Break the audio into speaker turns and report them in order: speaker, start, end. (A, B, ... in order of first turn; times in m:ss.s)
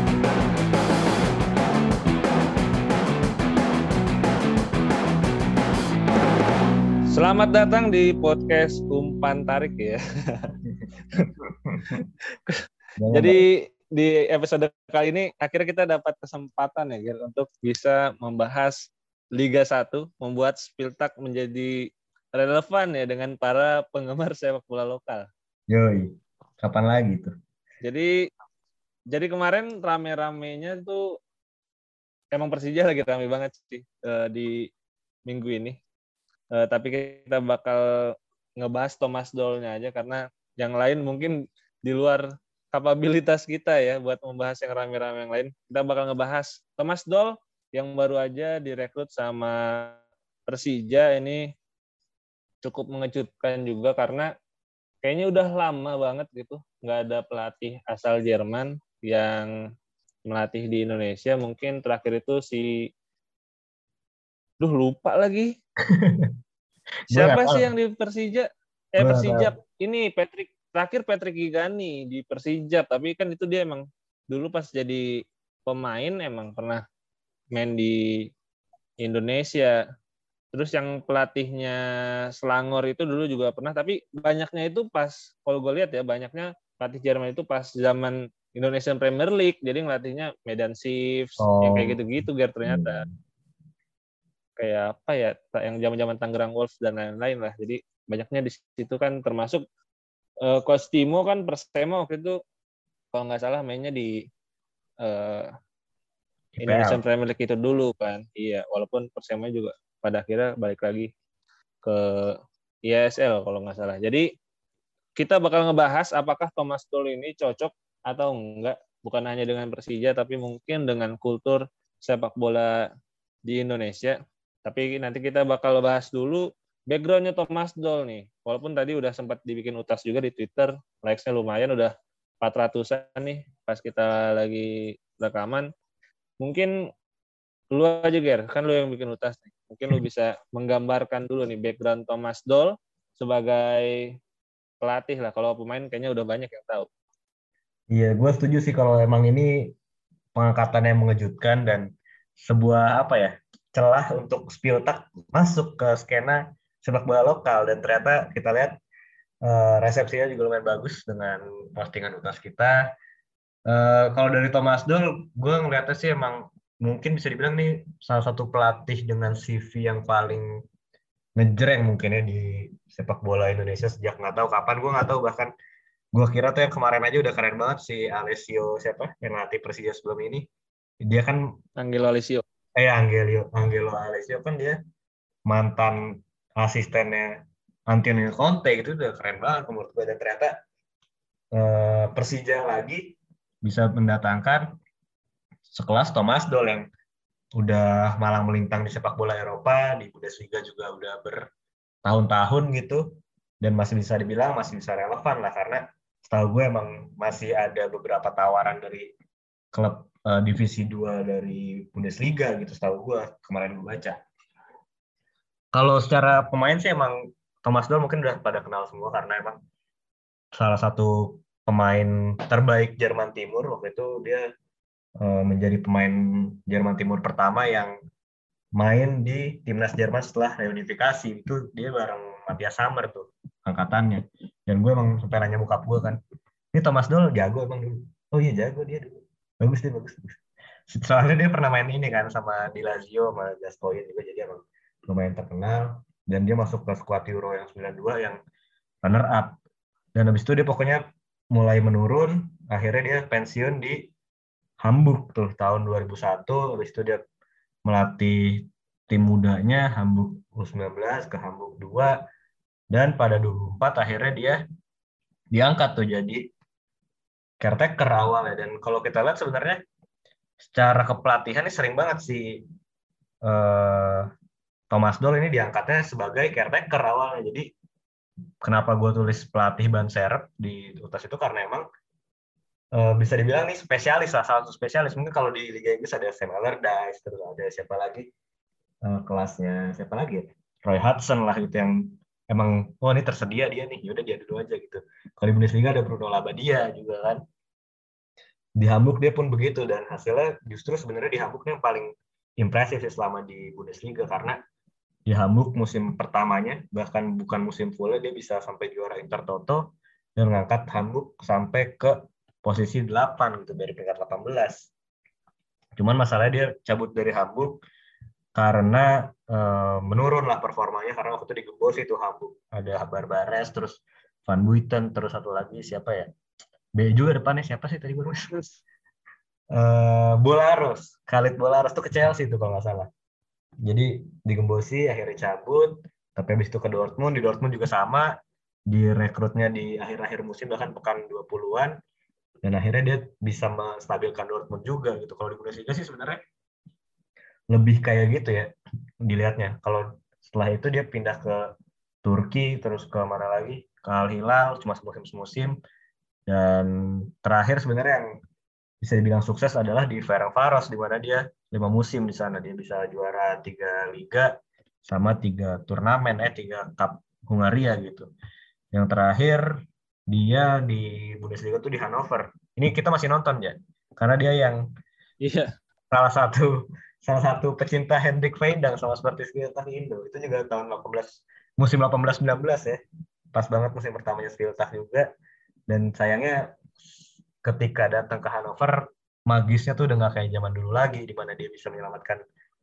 0:07.1-0:10.6 A
0:11.2-0:11.9 B
0:13.0-0:13.4 B
0:13.1-0:21.8 A
0:22.3-0:25.3 A
0:25.7-0:27.3 B
0:27.8-0:28.1 A
0:29.1-0:31.0 A
0:32.3-0:34.5 A
0:35.3-0:35.8 A
0:36.5-0:37.8 A
0:38.6-0:51.5 A
0:52.6-0:54.3 A
0:55.0-0:59.5 A
1:00.2-1:02.7 A
1:04.6-1:05.5 A
1:05.9-1:06.3 B
1:07.1-1:07.7 B
1:07.1-1:15.0 A
1:09.0-1:09.5 B
1:15.6-1:16.8 A
1:17.5-1:18.3 A
1:19.0-1:19.8 A
1:20.5-1:21.8 A
1:22.4-1:33.0 A
1:31.4-1:32.0 B
1:32.6-1:33.1 B
1:34.6-1:39.6 A
1:40.4-1:42.4 A
1:43.1-1:44.1 A
1:45.0-1:45.5 A
1:46.5-1:47.0 B
1:46.6-1:51.1 A
1:51.8-1:54.2 A
1:55.2-2:02.8 A
2:03.5-2:15.7 A
2:16.4-2:16.7 A
2:17.7-2:24.2 A
2:24.8-2:26.9 A
2:27.9-2:29.7 B
2:30.4-2:38.8 B
2:39.4-2:42.8 B
2:43.7-2:50.5 B
2:51.4-2:55.5 B
2:56.1-3:00.5 B
3:01.0-3:01.4 B
3:01.8-3:02.4 A
3:02.8-3:04.8 B
3:05.5-3:06.0 B
3:06.6-3:07.4 B
3:07.9-3:10.5 B
3:11.5-3:14.7 B
3:15.7-3:16.9 B
3:17.6-3:21.4 B
3:22.0-3:23.0 B
3:23.6-3:29.1 B
3:29.7-3:34.2 B
3:35.7-3:39.6 B
3:40.6-3:44.4 B
3:45.2-3:47.9 B
3:48.8-3:56.2 B
3:56.7-4:00.3 B
4:00.9-4:08.4 B
4:09.0-4:09.6 B
4:10.2-4:14.1 B
4:14.8-4:17.2 B
4:17.9-4:22.1 B
4:22.9-4:24.6 B
4:25.5-4:26.5 B
4:27.6-4:29.8 B
4:30.6-4:32.6 B
4:33.4-4:34.3 B
4:34.9-4:37.7 B
4:38.6-4:41.8 B
4:42.9-4:48.3 B
4:49.0-4:57.4 B
4:58.8-5:04.6 B
5:05.3-5:09.8 B
5:10.4-5:14.9 B
5:16.0-5:17.8 B
5:18.5-5:26.3 B
5:27.0-5:28.7 B
5:29.7-5:33.1 B
5:33.8-5:38.3 B
5:38.9-5:42.0 B
5:42.6-5:46.4 B
5:47.7-5:48.7 B
5:49.2-5:51.6 B
5:52.2-5:55.8 B
5:56.5-5:58.3 B
5:59.0-6:04.5 B
6:05.0-6:08.3 B
6:08.9-6:09.7 B
6:10.3-6:14.8 B
6:15.4-6:15.7 A
6:16.1-6:23.0 B
6:23.5-6:25.3 B
6:25.9-6:26.8 B
6:27.6-6:32.4 B